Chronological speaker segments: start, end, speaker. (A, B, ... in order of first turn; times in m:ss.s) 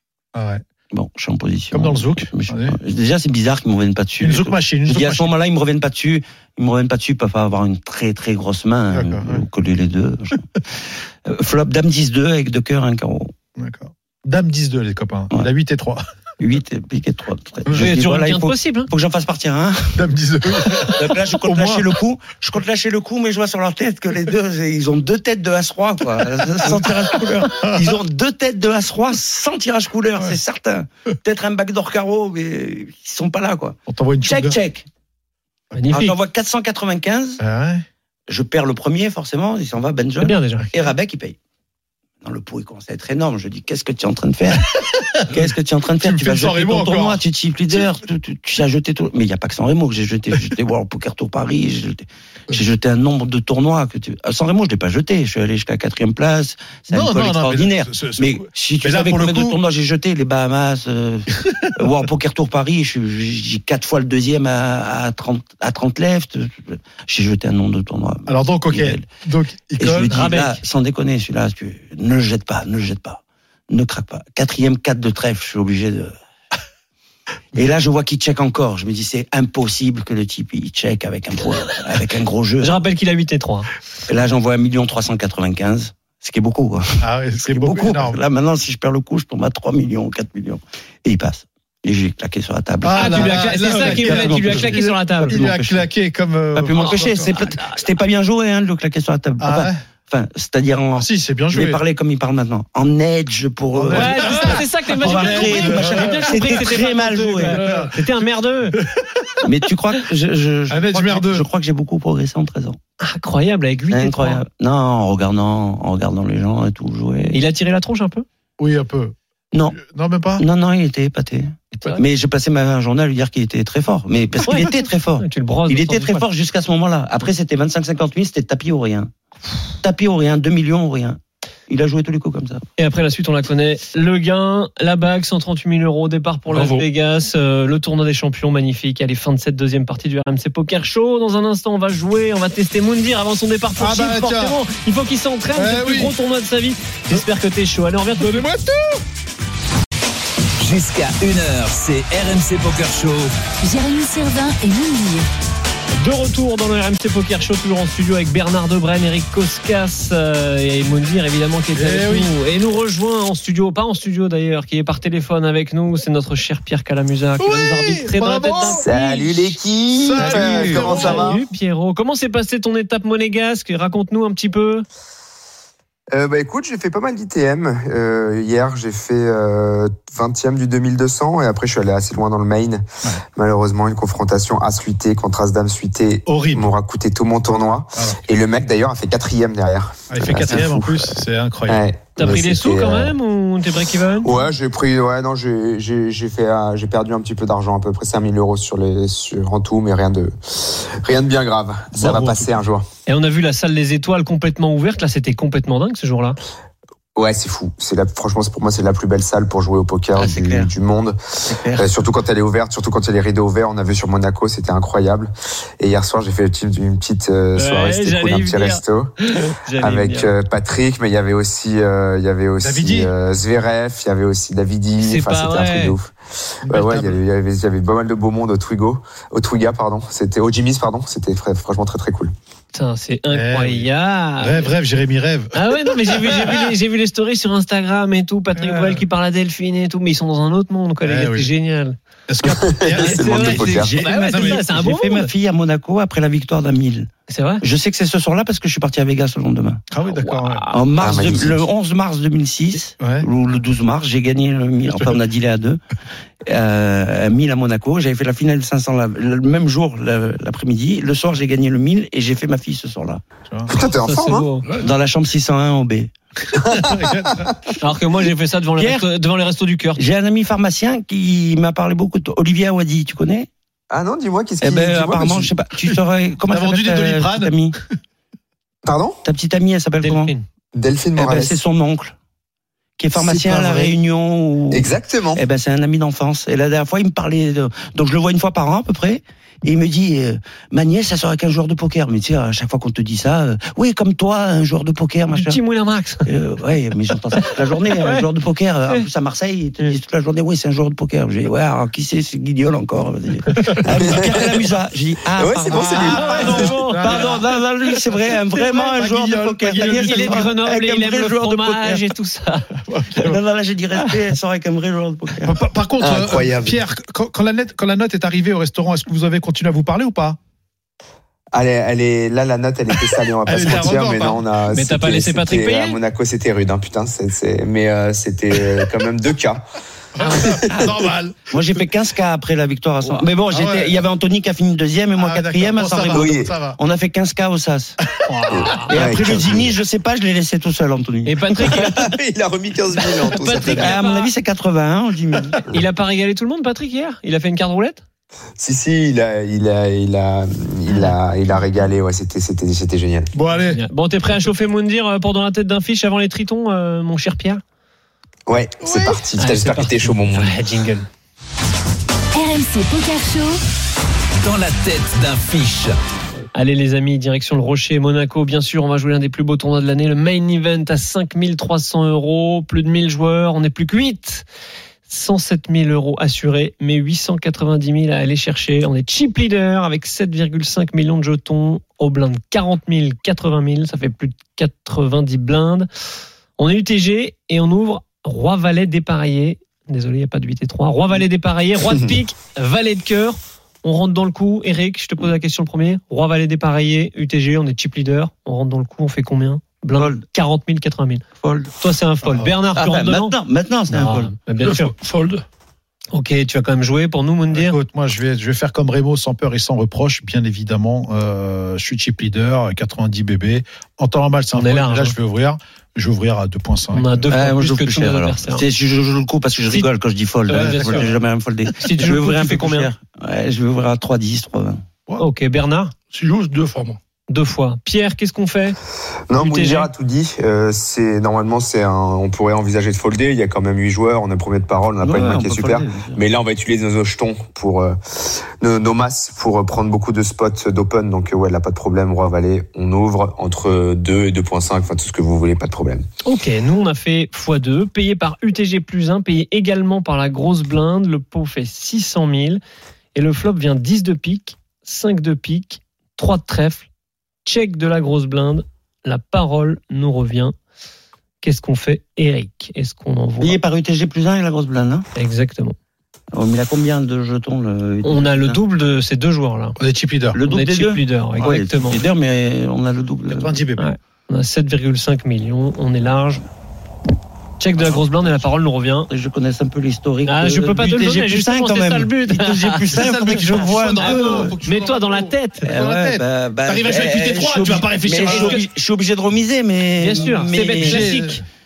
0:00.3-0:00.6 A
0:00.9-0:13.3 B
0:01.7-0:02.8 A
0:04.2-0:05.3 A
0:08.9-0:09.4 A
0:13.6-0:16.0 A
0:16.4-0:20.0 B
0:17.7-0:18.9 C
0:19.9-0:22.0 A
0:20.5-0:34.8 B
0:26.6-0:28.0 A
0:33.9-0:34.6 A
0:35.8-0:36.2 C
0:35.9-0:37.4 B
0:37.4-0:37.8 A
0:38.3-0:41.4 B
0:40.2-0:40.7 C
0:42.2-1:09.0 B
0:44.8-0:45.4 A
0:46.0-0:47.2 A
0:56.9-0:59.6 A
1:01.5-1:01.8 A
1:08.2-1:10.1 A
1:09.8-1:16.1 B
1:10.1-1:10.6 C
1:17.5-1:22.8 B
1:22.6-1:23.7 C
1:24.1-1:35.8 B
1:27.0-1:28.2 A
1:32.8-1:37.3 A
1:32.9-1:35.4 C
1:36.5-1:47.9 B
1:36.8-1:37.8 C
1:39.4-1:39.8 A
1:41.0-1:41.8 A
1:43.7-1:46.6 A
1:43.9-1:48.8 C
1:47.4-1:48.1 A
1:48.7-1:49.5 A
1:49.4-1:52.8 B
1:50.7-1:51.5 A
1:53.0-1:54.4 C
1:53.9-1:57.4 B
1:57.3-1:58.2 C
1:58.6-1:59.1 A
1:59.5-1:59.8 B
1:59.7-2:00.4 A
2:00.4-2:09.1 B
2:04.4-2:06.2 C
2:09.8-2:12.6 B
2:12.8-2:28.4 C
2:16.5-2:16.8 D
2:23.8-2:24.6 A
2:25.5-2:26.1 A
2:28.1-2:29.0 A
2:30.6-2:33.3 E
2:33.6-2:35.3 F
2:36.0-2:49.6 C
2:41.7-2:42.3 A
2:47.4-2:48.8 A
2:48.7-2:51.4 G
2:50.0-2:51.4 A
2:50.2-2:54.8 C
2:56.1-3:02.8 G
3:03.4-3:13.1 G
3:06.2-3:06.7 A
3:07.9-3:08.2 A
3:10.1-3:11.8 A
3:12.2-3:14.3 C
3:14.2-3:22.9 G
3:21.9-3:22.5 A
3:23.0-3:26.4 C
3:27.2-3:39.1 G
3:30.2-3:30.7 B
3:31.4-3:31.9 B
3:37.5-3:40.3 C
3:39.8-3:52.3 G
3:42.6-3:43.1 A
3:45.0-3:46.0 C
3:46.6-3:47.2 A
3:52.7-3:54.7 C
3:53.3-3:56.7 A
3:55.5-4:02.0 C
3:58.5-3:59.0 A
4:01.0-4:01.5 A
4:02.3-4:04.6 A
4:02.4-4:04.0 G
4:02.9-4:05.3 C
4:03.1-4:07.1 B
4:07.3-4:07.6 C
4:07.6-4:09.8 B
4:09.9-4:10.6 A
4:10.1-4:11.0 C
4:10.7-4:15.8 B
4:11.0-4:11.6 G
4:13.0-4:13.3 A
4:16.4-4:23.2 B
4:23.7-4:24.5 G
4:24.0-4:24.6 C
4:24.8-4:26.1 B
4:26.6-4:27.7 G
4:26.7-4:27.5 A
4:27.8-4:30.0 C
4:28.8-4:29.0 B
4:30.0-4:33.5 B
4:33.9-4:35.5 G
4:34.6-4:37.7 B
4:35.8-4:37.7 A
4:38.8-4:39.2 G
4:39.2-4:40.3 B
4:40.0-4:40.4 C
4:40.7-4:41.6 G
4:41.2-4:42.1 B
4:43.0-4:55.6 B
4:43.1-4:43.9 G
4:44.7-4:45.4 G
4:55.3-4:56.3 C
4:56.2-5:12.1 B
4:57.4-4:58.3 C
5:03.8-5:04.5 G
5:05.3-5:06.8 G
5:05.7-5:07.5 A
5:05.9-5:07.4 C
5:08.1-5:10.4 A
5:09.8-5:12.7 C
5:12.9-5:13.4 A
5:13.1-5:15.6 B
5:15.4-5:20.4 A
5:16.0-5:16.8 G
5:21.5-5:29.7 G
5:23.4-5:24.4 A
5:24.7-5:26.0 C
5:30.1-5:31.8 A
5:30.2-5:30.6 C
5:30.7-5:30.9 B
5:31.5-5:38.0 B
5:33.0-5:34.0 A
5:35.2-5:36.8 A
5:36.0-5:36.6 G
5:38.1-5:39.4 A
5:38.3-5:38.9 C
5:38.5-5:39.8 G
5:38.7-5:41.9 B
5:41.2-5:42.1 C
5:41.6-5:44.0 G
5:43.2-5:44.3 C
5:43.6-5:45.6 B
5:45.6-5:48.0 C
5:48.6-5:53.3 G
5:53.3-5:53.8 A
5:53.7-5:57.6 C
5:58.5-6:00.6 G
5:58.8-5:59.2 A
5:59.4-6:01.1 C
6:02.3-6:03.6 F
6:04.4-6:06.0 E
6:06.5-6:14.4 C
6:15.1-6:25.9 C
6:26.6-6:41.2 C
6:40.0-6:40.2 B
6:41.4-6:41.7 B
6:41.8-6:43.3 C
6:42.2-6:42.5 A
6:42.7-6:44.3 B
6:43.9-6:44.9 C
6:44.6-6:45.4 D
6:46.1-6:47.8 C
6:47.5-6:57.3 A
6:54.5-6:55.2 C
6:56.9-6:58.6 C
6:57.3-7:04.8 B
7:00.5-7:01.1 C
7:00.5-7:01.2 A
7:01.8-7:02.9 C
7:05.2-7:05.9 C
7:06.1-7:07.0 D
7:07.3-7:08.8 C
7:09.3-7:26.0 G
7:09.3-7:09.9 C
7:15.0-7:16.2 B
7:26.2-7:32.6 C
7:33.1-7:36.8 C
7:37.4-7:40.5 C
7:41.4-7:43.6 C
7:43.4-7:45.1 B
7:45.2-7:45.8 C
7:46.3-7:48.6 B
7:48.0-7:49.8 C
7:49.8-7:50.4 A
7:50.3-7:53.5 B
7:50.4-7:52.0 C
7:53.3-7:53.9 A
7:53.8-7:56.4 C
7:57.6-7:59.1 C
7:59.1-8:04.6 B
8:00.2-8:03.0 C
8:02.9-8:08.6 A
8:03.8-8:05.7 C
8:05.6-8:11.1 B
8:08.2-8:08.6 C
8:10.0-8:11.4 C
8:10.2-8:11.4 A